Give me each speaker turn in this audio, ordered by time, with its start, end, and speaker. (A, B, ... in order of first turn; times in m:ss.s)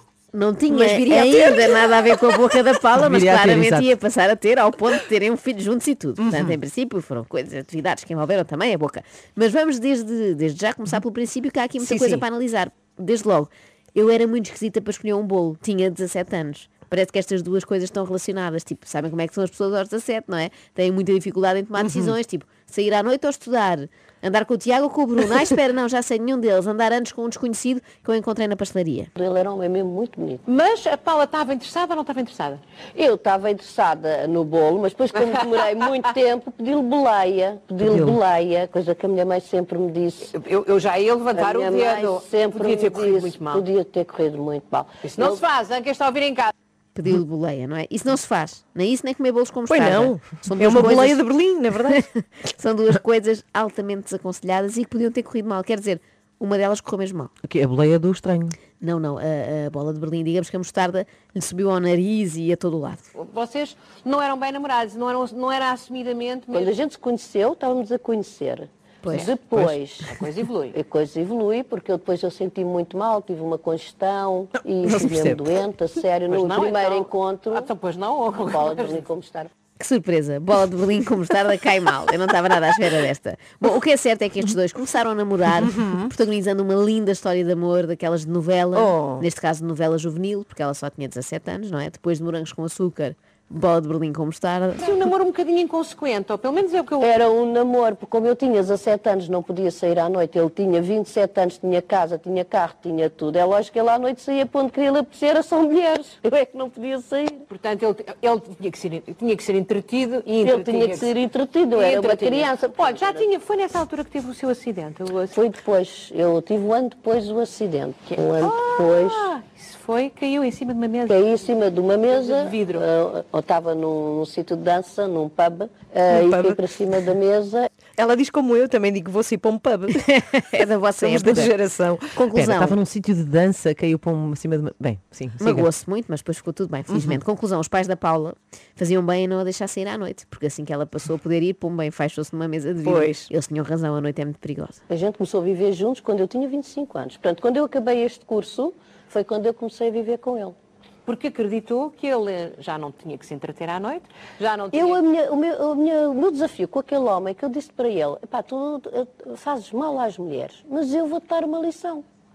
0:00.3-0:29.1 A
0:00.7-0:01.7 B
0:02.9-0:03.9 C
0:06.2-0:06.6 B
0:11.8-0:12.2 B
0:21.8-0:22.2 B
0:29.2-0:30.4 D
0:30.4-0:32.6 E
0:32.9-0:40.3 D
0:37.8-0:38.2 C
0:40.3-0:43.6 E
0:41.3-0:45.4 D
0:45.0-0:46.5 E
0:46.9-0:51.2 A
0:49.7-0:52.0 B
0:51.9-0:57.3 A
0:57.4-0:58.6 C
0:58.8-1:03.0 A
1:03.1-1:06.8 E
1:06.5-1:10.1 D
1:09.0-1:09.3 A
1:09.1-1:09.4 E
1:10.0-1:10.8 E
1:10.7-1:17.7 D
1:14.8-1:15.5 C
1:16.3-1:19.0 E
1:18.3-1:19.5 D
1:19.8-1:34.9 A
1:25.6-1:26.1 B
1:28.7-1:29.2 B
1:34.8-1:37.1 E
1:37.0-1:47.4 D
1:47.5-1:51.1 E
1:50.4-1:53.3 D
1:51.7-1:55.3 E
1:55.3-1:59.3 D
1:58.1-2:01.3 E
2:01.1-2:07.7 D
2:02.1-2:02.8 E
2:06.1-2:06.6 B
2:08.0-2:10.0 B
2:09.9-2:11.5 A
2:11.0-2:12.2 B
2:12.1-2:12.8 A
2:12.3-2:15.7 C
2:15.4-2:24.8 A
2:16.9-2:17.2 B
2:22.8-2:23.3 B
2:24.9-2:30.5 D
2:31.0-2:35.0 E
2:34.7-2:42.0 D